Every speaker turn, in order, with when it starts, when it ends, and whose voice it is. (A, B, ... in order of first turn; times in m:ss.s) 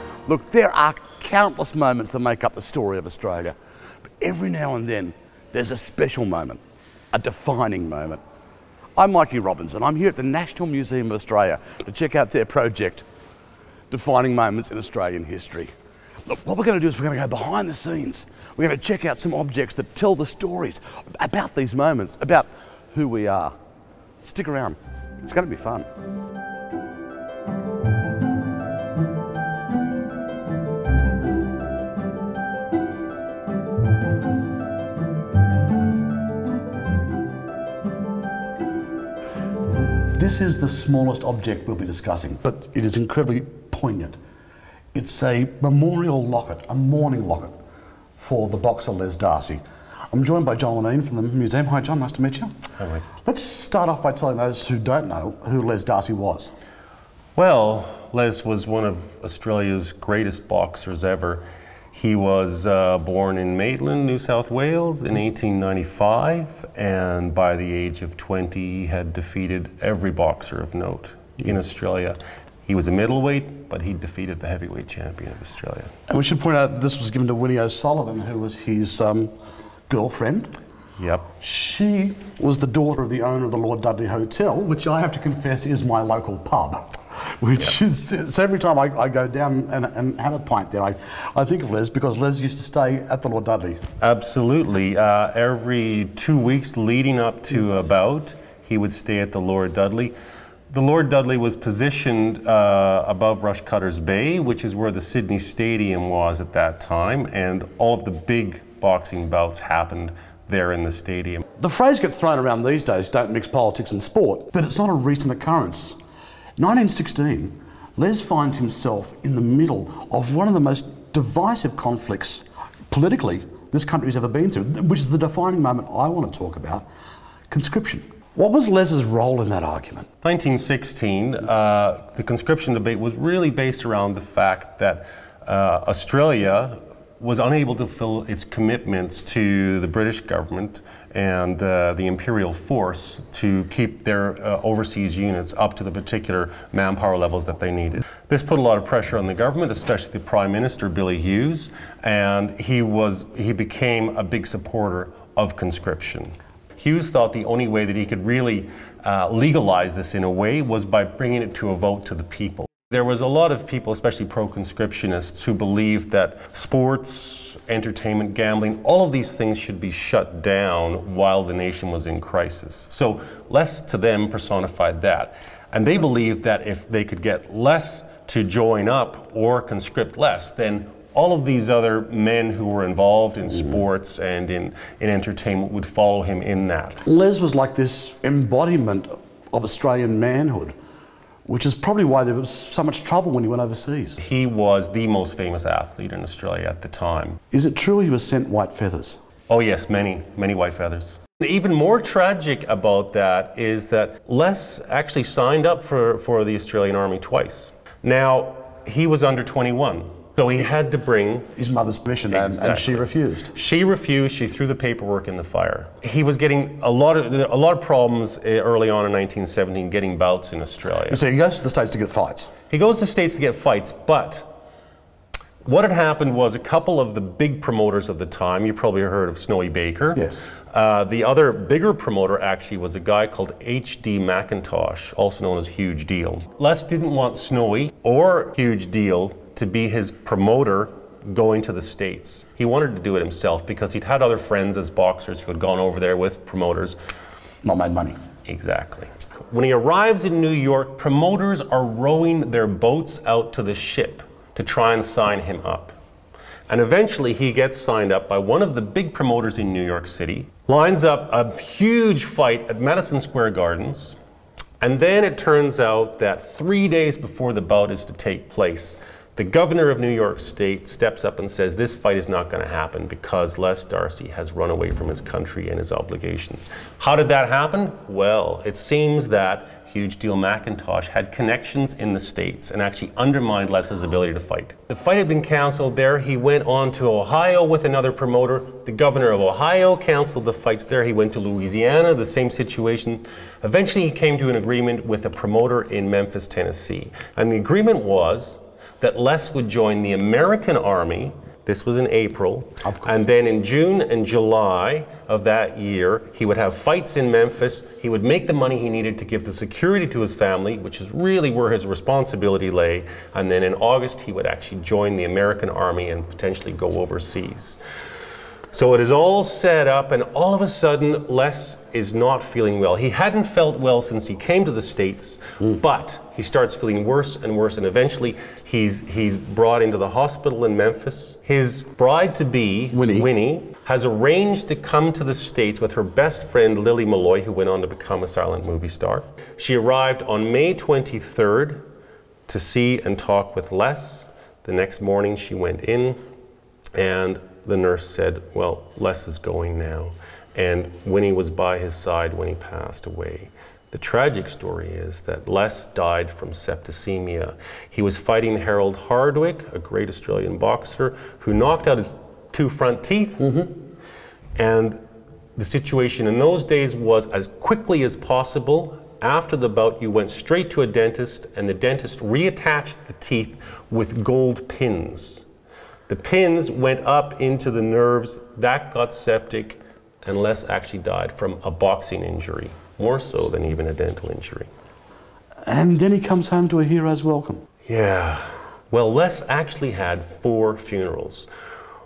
0:00.2-0:03.5 A
0:04.2-0:06.6 A
0:07.1-0:08.2 A
0:09.0-0:13.0 A
0:13.9-0:15.7 A
0:16.2-0:23.5 A
0:24.2-0:25.8 A
0:40.1-0:44.2 A
0:44.9-0:47.5 A
0:48.2-0:49.6 A
0:50.1-0:52.5 A
0:52.8-0:53.1 B
0:53.2-0:56.5 A
0:57.4-1:15.9 B
1:16.1-1:19.3 A
1:19.9-1:20.5 A
1:21.0-1:21.3 B
1:21.4-1:33.8 A
1:34.0-1:40.1 B
1:40.7-1:51.4 B
1:51.6-1:56.0 A
1:56.6-2:06.8 A
2:07.5-2:10.1 A
2:10.2-3:07.0 B
3:07.0-3:10.7 A
3:11.4-3:14.2 A
3:14.2-3:17.4 B
3:17.5-3:19.2 A
3:19.5-3:31.5 B
3:31.6-3:33.5 A
3:32.3-3:41.2 B
3:41.1-3:42.5 A
3:42.7-3:44.5 B
3:45.6-4:07.0 B
3:50.1-3:50.5 A
4:07.6-4:08.2 A
4:08.5-4:15.9 B
4:16.7-4:24.2 B
4:24.8-5:17.8 B
5:02.8-5:03.1 A
5:18.7-5:41.8 B
5:32.9-5:33.3 A
5:42.5-5:46.2 B
5:46.9-6:03.7 B
6:04.6-6:05.0 B
6:05.6-6:15.4 B
6:16.1-6:24.7 B
6:25.6-6:27.6 A
6:27.9-6:31.5 B